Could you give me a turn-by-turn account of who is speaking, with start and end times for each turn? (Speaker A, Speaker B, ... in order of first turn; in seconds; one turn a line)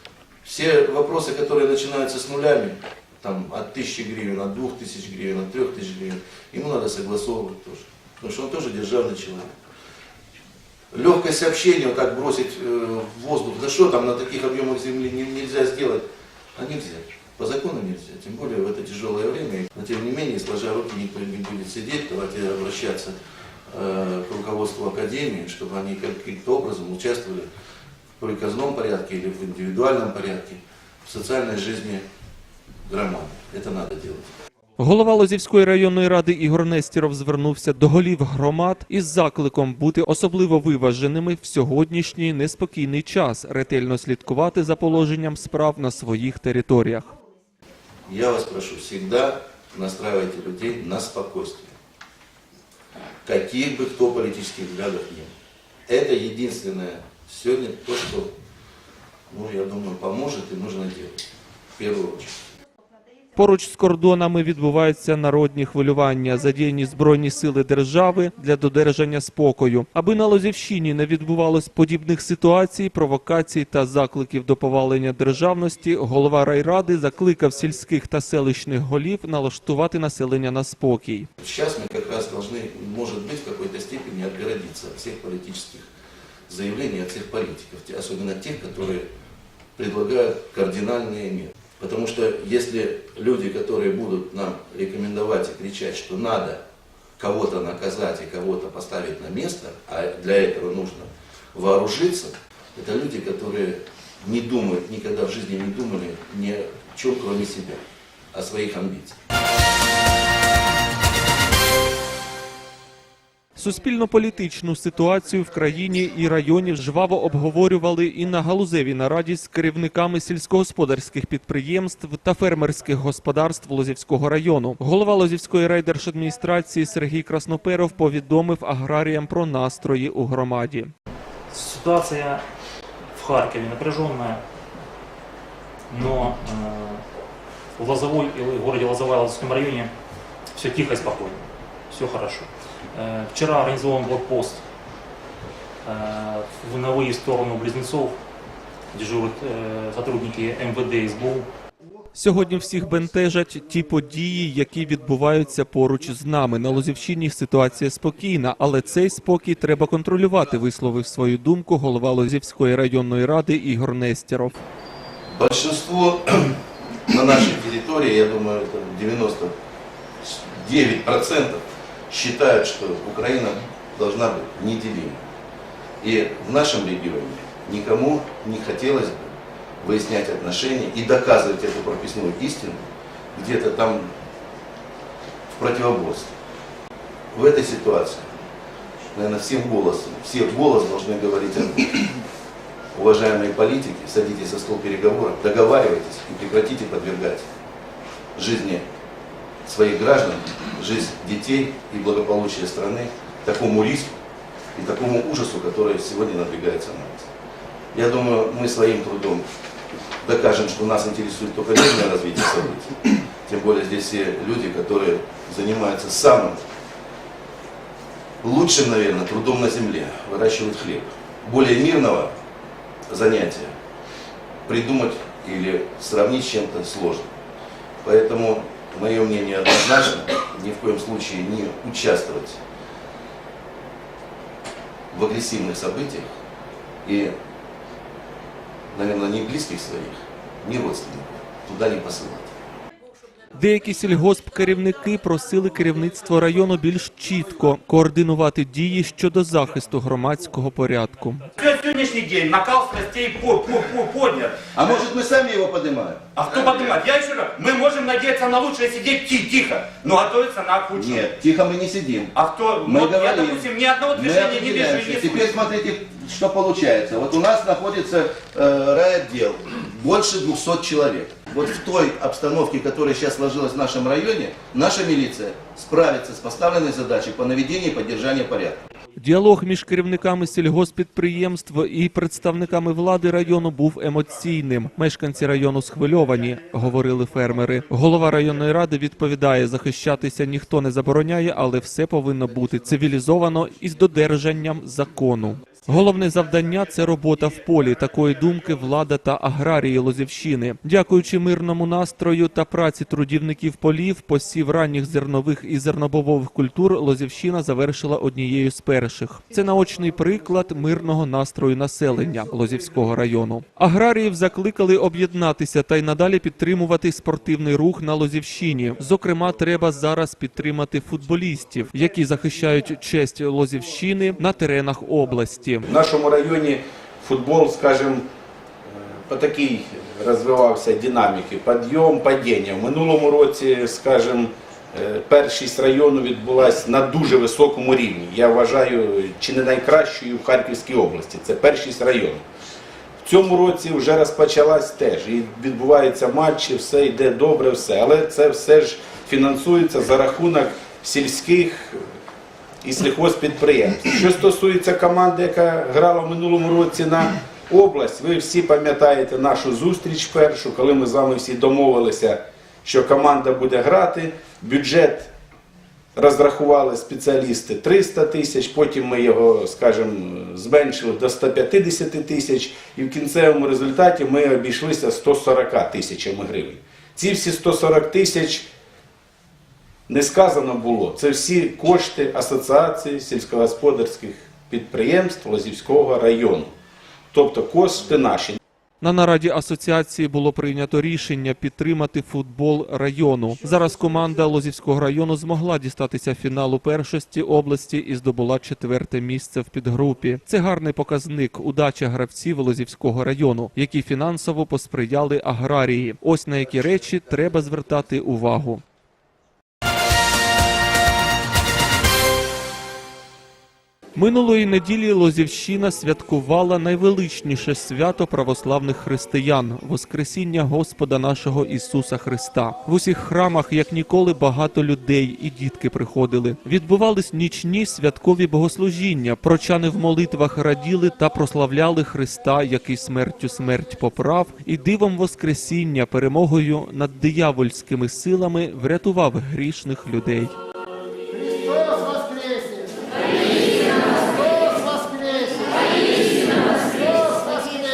Speaker A: 0.4-9.5
Speaker A: 10.9-27.5
Speaker A: 28.2-32.0
Speaker A: 32.9-34.3
Speaker B: 34.8-47.1
Speaker A: 48.1-51.7
Speaker A: 53.2-55.3
Speaker A: 55.9-58.3
Speaker A: 59.3-61.2
Speaker A: 61.8-62.4
Speaker B: 63.4-81.3
Speaker A: 81.4-85.9
Speaker A: 86.5-89.1
Speaker A: 89.8-96.6
Speaker A: 97.2-107.8
Speaker A: 108.3-109.2
Speaker B: 113.6-130.9
Speaker C: 131.5-132.4
Speaker C: 133.1-134.4
Speaker C: 135.9-137.0
Speaker C: 137.8-139.9
Speaker C: 140.6-144.7
Speaker C: 145.8-148.2
Speaker C: 148.9-151.5
Speaker B: 152.1-164.6
Speaker A: 165.3-169.6
Speaker A: 170.2-175.2
Speaker A: 176.0-184.1
Speaker A: 185.5-186.3
Speaker A: 187.3-188.5
Speaker A: 189.1-192.2
Speaker A: 192.9-197.5
Speaker A: 198.4-198.9
Speaker A: 199.7-204.2
Speaker A: 204.8-207.3
Speaker A: 207.9-209.5
Speaker A: 210.2-216.6
Speaker A: 218.4-222.3
Speaker A: 223.1-223.8
Speaker A: 224.7-227.3
Speaker A: 228.0-232.6
Speaker A: 235.1-236.3
Speaker A: 237.1-237.3
Speaker A: 238.9-242.6
Speaker B: 243.6-251.5
Speaker D: 251.6-255.0
Speaker A: 254.8-256.9
Speaker D: 256.4-261.3
Speaker A: 260.9-278.9
Speaker D: 262.3-265.7
Speaker B: 279.2-325.9
Speaker E: 325.9-328.2
Speaker E: 328.9-342.4
Speaker E: 343.2-352.1
Speaker E: 352.8-365.3
Speaker E: 366.1-378.7
Speaker E: 380.1-386.7
Speaker E: 387.3-388.6
Speaker B: 389.0-408.8
Speaker B: 414.2-440.6